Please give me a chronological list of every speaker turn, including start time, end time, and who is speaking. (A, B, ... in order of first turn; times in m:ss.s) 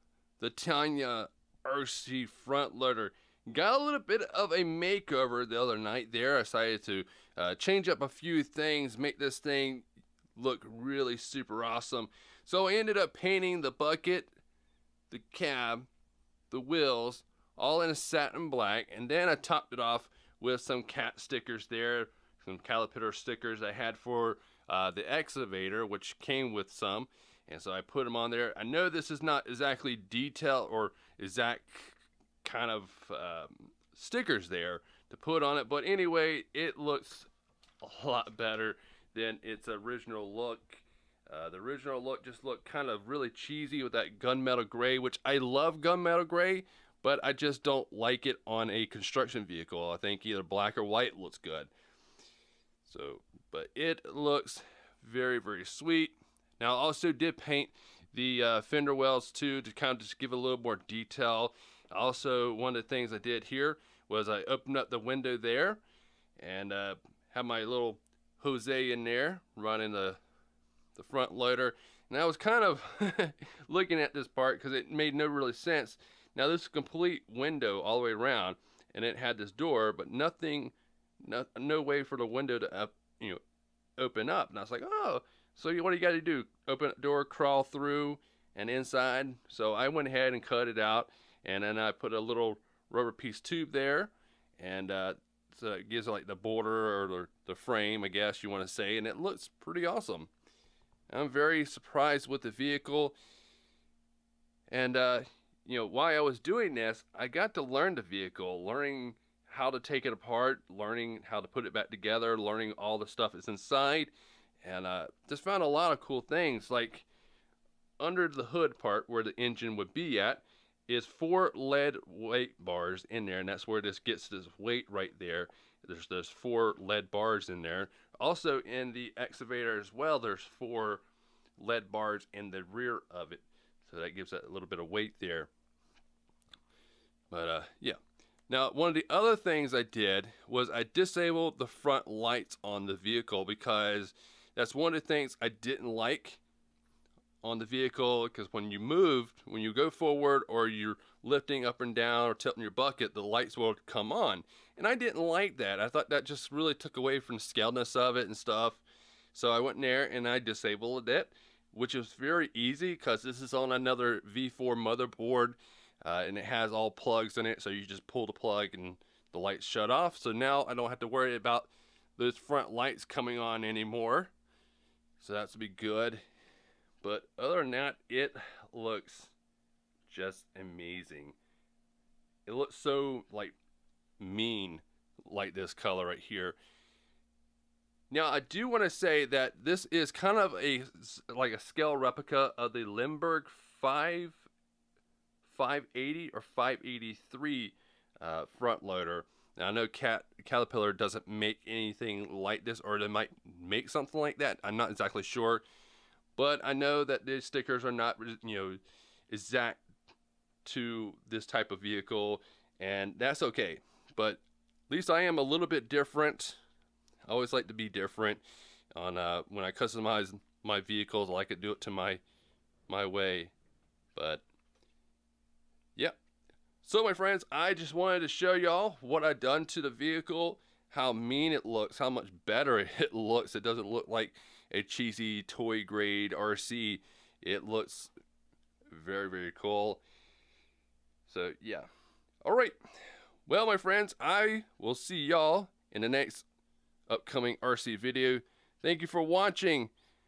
0:00.4-0:14.3 A
0:15.1-0:15.9 A
0:16.5-0:37.3 A
0:37.8-0:51.7 A
0:52.8-1:05.8 A
1:06.4-1:10.2 A
1:11.0-1:23.4 A
1:24.0-1:40.3 A
1:41.1-1:43.2 A
1:44.7-1:57.1 A
1:58.0-2:11.0 A
2:11.6-2:15.5 A
2:17.3-2:26.4 A
2:27.4-2:54.3 A
2:55.2-2:56.2 A
2:57.0-2:59.4 A
3:00.1-3:01.4 A
3:02.5-3:03.6 A
3:04.2-3:06.6 A
3:08.1-3:14.5 A
3:15.4-3:25.6 A
3:26.4-3:29.8 A
3:30.6-3:36.6 A
3:37.3-3:38.4 A
3:39.0-3:42.2 A
3:42.9-3:43.5 A
3:44.2-3:44.4 A
3:46.8-3:58.1 A
3:58.9-4:00.0 A
4:01.3-4:01.9 A
4:02.4-4:02.8 A
4:03.5-4:06.5 A
4:07.1-4:09.9 A